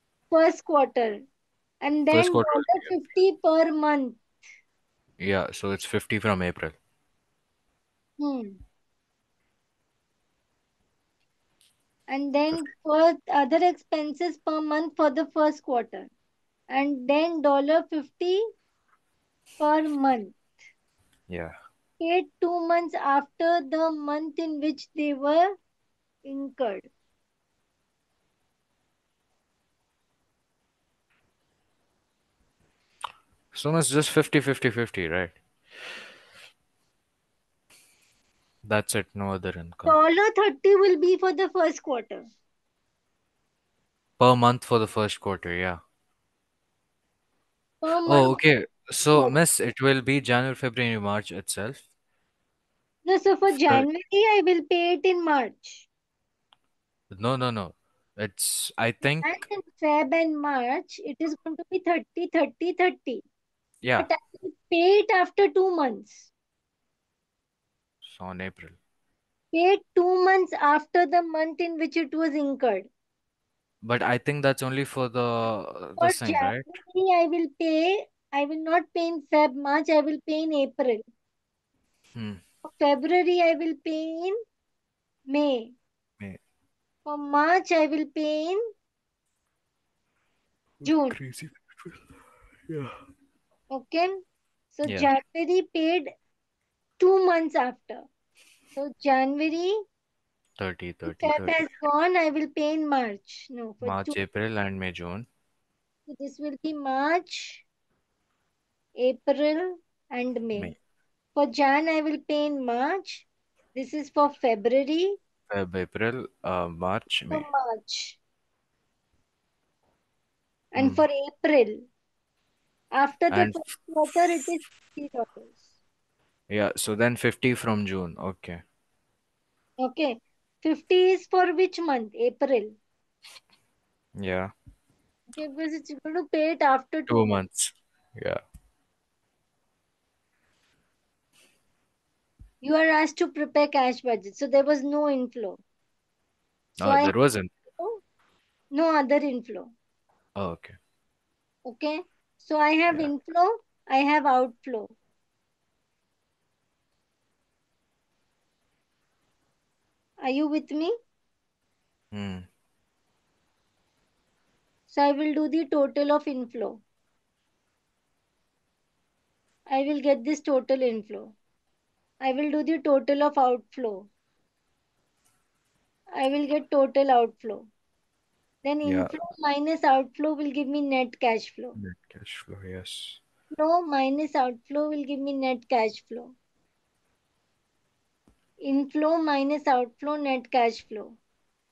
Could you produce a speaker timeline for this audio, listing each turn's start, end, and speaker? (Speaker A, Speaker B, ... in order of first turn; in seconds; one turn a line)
Speaker A: 0.3-1.2
Speaker A: 1.8-4.2
Speaker B: 2.1-3.0
Speaker B: 5.2-6.8
Speaker A: 8.2-8.6
Speaker A: 12.1-16.1
Speaker A: 16.7-18.4
Speaker A: 19.6-20.4
Speaker A: 22.0-25.5
Speaker A: 26.2-26.9
Speaker B: 33.5-35.4
Speaker B: 38.6-40.0
Speaker A: 39.9-42.2
Speaker B: 44.2-45.8
Speaker A: 47.8-48.4
Speaker B: 48.0-51.8
Speaker A: 53.0-55.9
Speaker B: 53.5-53.9
Speaker B: 57.1-59.4
Speaker A: 59.2-63.2
Speaker B: 63.8-64.1
Speaker A: 64.0-66.3
Speaker B: 68.0-68.8
Speaker A: 69.5-72.9
Speaker B: 73.8-76.7
Speaker A: 76.0-81.0
Speaker B: 82.1-82.4
Speaker A: 82.6-84.4
Speaker A: 85.3-85.8
Speaker A: 87.1-88.6
Speaker B: 90.8-92.0
Speaker A: 90.8-91.2
Speaker A: 93.7-94.2
Speaker A: 94.7-96.1
Speaker B: 94.8-95.1
Speaker A: 97.0-98.1
Speaker A: 98.8-99.7
Speaker B: 100.6-101.6
Speaker A: 101.1-104.2
Speaker B: 103.8-105.3
Speaker A: 106.1-107.6
Speaker A: 109.0-110.7
Speaker A: 111.4-115.2
Speaker B: 115.5-117.5
Speaker A: 117.3-118.2
Speaker A: 120.7-121.8
Speaker B: 120.8-121.0
Speaker A: 123.0-125.6
Speaker B: 123.3-124.4
Speaker B: 126.5-128.6
Speaker A: 129.8-132.8
Speaker B: 134.2-134.5
Speaker A: 135.3-137.3
Speaker B: 137.1-138.4
Speaker A: 142.6-145.6
Speaker B: 146.8-147.5
Speaker A: 146.8-147.1
Speaker A: 148.7-149.7
Speaker B: 150.4-150.8
Speaker A: 151.7-154.9
Speaker A: 160.2-160.9
Speaker B: 162.1-162.5
Speaker A: 164.9-166.8
Speaker A: 169.7-171.3
Speaker A: 172.2-174.1
Speaker A: 176.2-177.7
Speaker A: 178.6-181.8
Speaker B: 178.8-179.1
Speaker B: 181.8-183.2
Speaker A: 183.5-186.3
Speaker A: 188.6-191.2